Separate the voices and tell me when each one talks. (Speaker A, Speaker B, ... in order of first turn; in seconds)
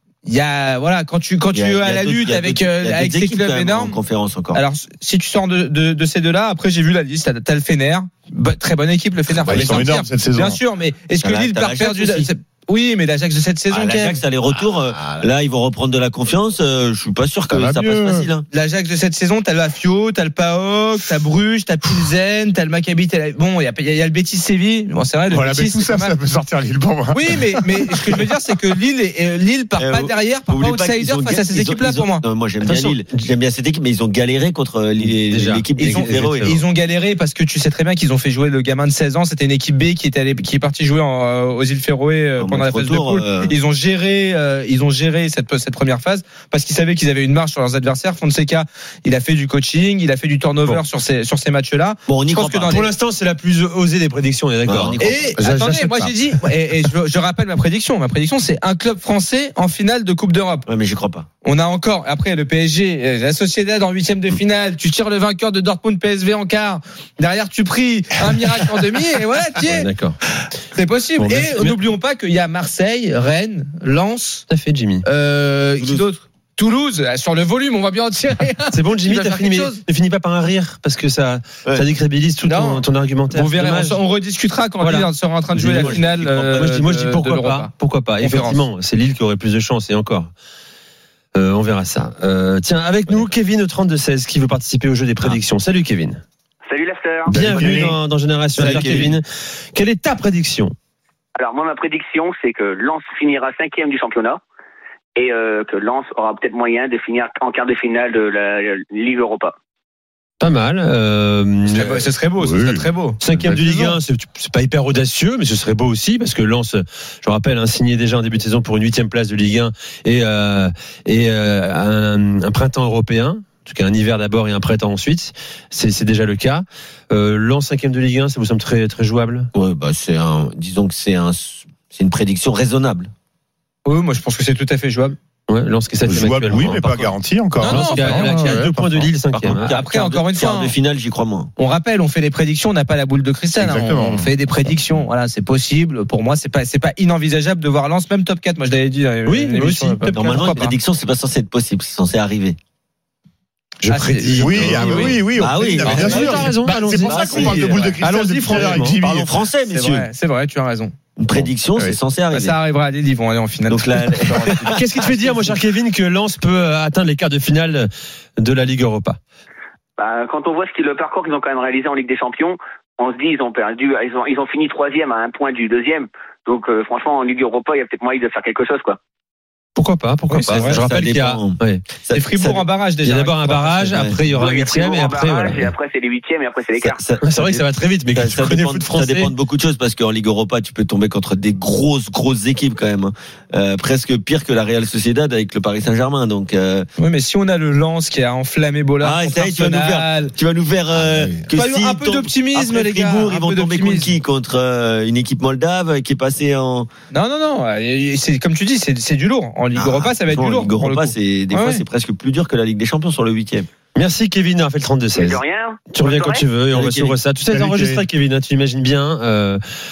Speaker A: 0.2-4.0, 4.5-14.2, 18.5-26.1, 27.1-32.2, 35.8-52.9, 55.0-60.7, 61.4-69.9, 70.7-74.5, 75.0-79.8, 82.4-88.7, 111.6-113.2, 133.8-135.2, 137.6-138.6, 139.7-140.7, 141.6-150.8, 153.8-155.2, 155.8-156.1, 157.1-158.1, 159.7-160.9, 162.3-165.6, 180.3-180.8, 182.1-184.1, 197.0-200.3, 201.5-204.1, 207.1-211.8
Speaker B: 1.5-4.6, 11.2-12.3, 13.7-18.4, 29.8-36.6, 42.4-43.5, 52.1-52.7, 54.6-55.4, 60.7-61.3, 75.8-76.0, 85.6-86.9, 98.5-99.2, 129.5-133.1, 139.3-141.5, 150.1-152.6, 155.3-156.5, 157.1-157.4, 158.5-160.1, 161.2-162.6, 163.7-164.8, 180.5-182.6, 183.9-184.3, 187.0-196.9, 199.0-206.9, 209.7-213.7, 216.7-217.2
Speaker C: 9.3-10.6, 14.9-15.2, 17.5-18.3, 25.3-28.2, 97.3-98.0, 98.6-99.0, 112.4-112.8, 113.5-114.0, 136.0-139.1, 143.6-144.3, 154.3-159.3, 217.5-218.0
Speaker D: 32.6-33.0, 35.0-36.6, 52.6-56.1, 69.6-70.2, 71.2-71.8, 74.5-75.0, 78.7-84.0, 84.8-90.3, 91.3-96.2, 97.3-100.7, 110.4-112.0, 113.2-129.5, 135.5-139.8, 149.2-150.6, 153.8-155.2, 155.8-159.0, 164.7-169.2, 179.7-181.8, 183.0-185.7, 187.2-189.3, 213.9-219.6
Speaker E: 96.7-97.8, 101.3-104.4, 105.1-109.5, 170.0-179.0, 184.3-187.0, 215.2-216.4